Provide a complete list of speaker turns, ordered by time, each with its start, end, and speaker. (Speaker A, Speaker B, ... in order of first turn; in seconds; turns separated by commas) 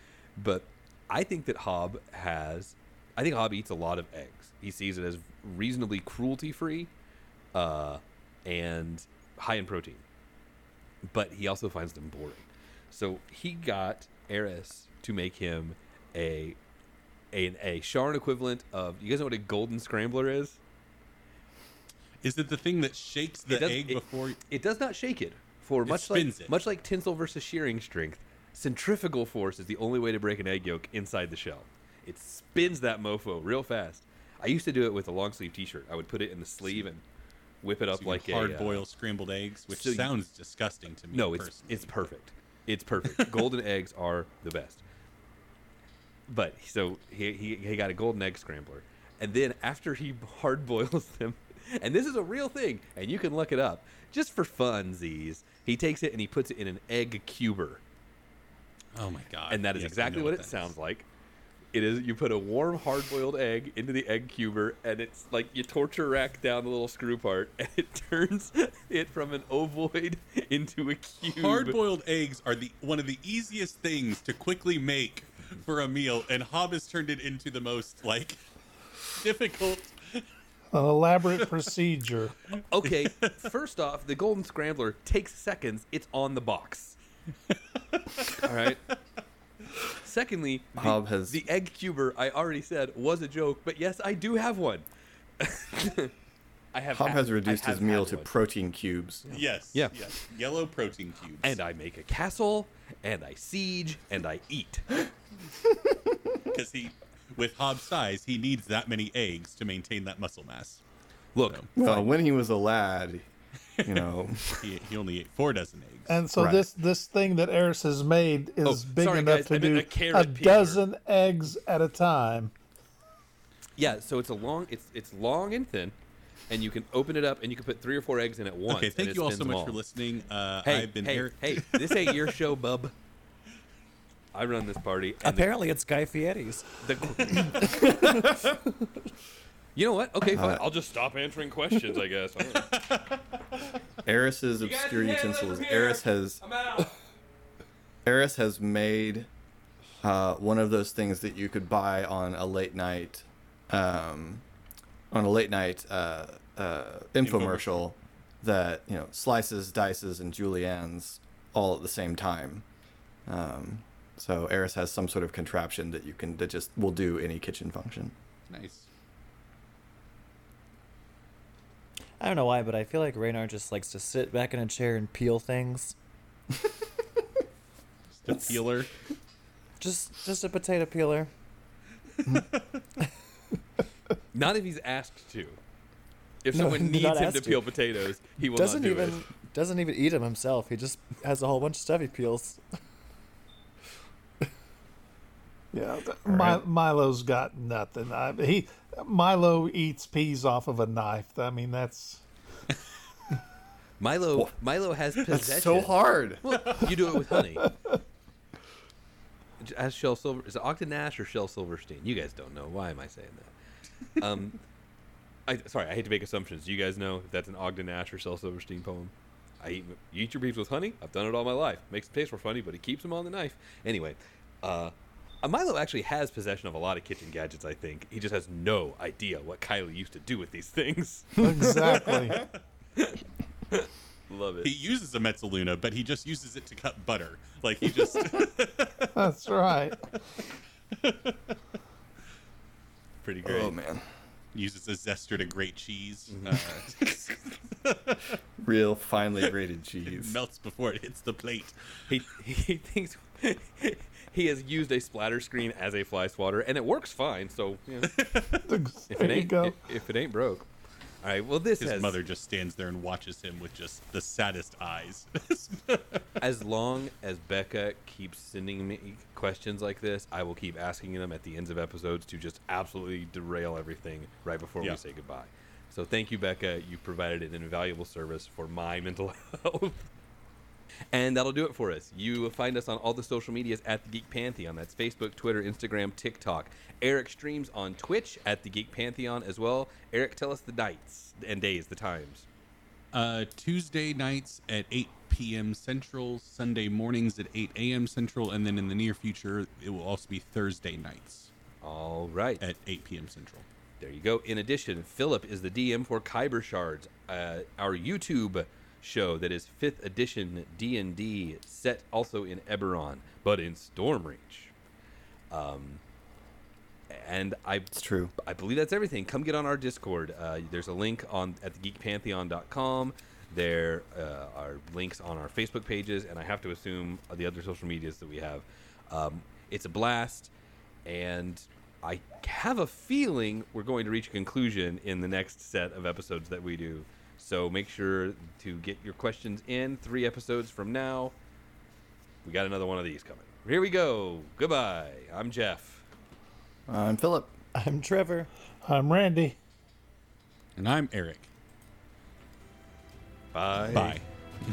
Speaker A: 0.4-6.9, Speaker A: 7.5-10.0, Speaker A: 11.1-16.6, Speaker A: 17.3-20.6, Speaker B: 22.2-24.4, Speaker A: 23.5-37.0, Speaker B: 25.9-26.6, Speaker A: 37.6-38.9, Speaker B: 38.0-41.9, Speaker A: 39.7-40.1, Speaker A: 41.1-44.8, Speaker A: 46.3-57.8, Speaker B: 58.9-60.7, Speaker A: 59.5-61.1, Speaker A: 61.7-71.8, Speaker B: 71.4-78.4, Speaker B: 79.1-80.2, Speaker C: 80.7-82.4, Speaker A: 82.7-87.0, Speaker B: 82.8-83.3, Speaker B: 87.9-88.4, Speaker A: 88.4-88.8, Speaker A: 89.9-94.8, Speaker D: 90.8-91.4, Speaker A: 95.4-96.1, Speaker A: 96.7-98.3, Speaker D: 96.9-99.3, Speaker B: 99.3-101.6, Speaker A: 99.3-100.0, Speaker A: 101.4-105.0, Speaker B: 106.5-110.8, Speaker A: 111.3-112.0, Speaker B: 111.4-112.0, Speaker D: 111.8-113.3, Speaker D: 113.8-114.8, Speaker B: 114.6-116.2, Speaker C: 116.1-122.5, Speaker D: 116.3-116.7, Speaker A: 118.6-120.8, Speaker A: 123.8-126.0, Speaker A: 126.5-129.8, Speaker B: 128.7-132.3, Speaker A: 130.6-132.9, Speaker A: 134.3-135.5, Speaker E: 135.2-138.4, Speaker A: 136.8-138.6, Speaker A: 139.8-142.8, Speaker D: 140.3-140.6, Speaker B: 142.7-143.2, Speaker D: 144.0-146.4, Speaker A: 144.6-146.9, Speaker D: 148.1-149.3, Speaker D: 150.0-154.4, Speaker D: 155.1-162.6, Speaker B: 157.2-157.8, Speaker D: 163.3-168.1, Speaker B: 168.5-168.9, Speaker E: 172.2-176.0, Speaker B: 178.1-178.9, Speaker E: 179.8-181.3, Speaker B: 182.2-182.8, Speaker A: 184.3-185.6, Speaker A: 186.4-189.2, Speaker E: 186.5-187.8, Speaker E: 188.5-192.6, Speaker C: 195.7-202.2, Speaker D: 196.2-196.6, Speaker A: 204.0-207.7, Speaker D: 205.3-206.8, Speaker A: 209.6-213.5, Speaker A: 214.2-214.6, Speaker A: 215.5-231.4, Speaker C: 231.4-232.4, Speaker A: 232.9-234.7, Speaker B: 234.6-239.3, Speaker C: 239.2-240.2, Speaker B: 241.0-241.6, Speaker A: 243.2-243.8, Speaker D: 243.4-244.1, Speaker B: 244.5-248.4, Speaker D: 248.6-250.4, Speaker B: 250.1-252.1, Speaker A: 252.1-258.2, Speaker B: 258.1-258.8, Speaker C: 258.6-259.8, Speaker A: 259.1-260.7, Speaker A: 261.2-262.2, Speaker B: 261.8-266.2, Speaker A: 266.4-280.1, Speaker A: 281.1-292.5, Speaker B: 293.1-301.5, Speaker A: 301.8-302.6, Speaker B: 302.6-303.6, Speaker A: 304.0-314.7, Speaker A: 315.5-316.0, Speaker A: 317.1-330.5, Speaker D: 317.9-318.3, Speaker A: 331.1-341.3, Speaker A: 342.4-346.1, Speaker D: 346.9-347.5, Speaker E: 347.8-348.5, Speaker C: 348.8-349.6, Speaker B: 350.8-351.5, Speaker A: 353.5-354.2, Speaker B: 353.9-354.2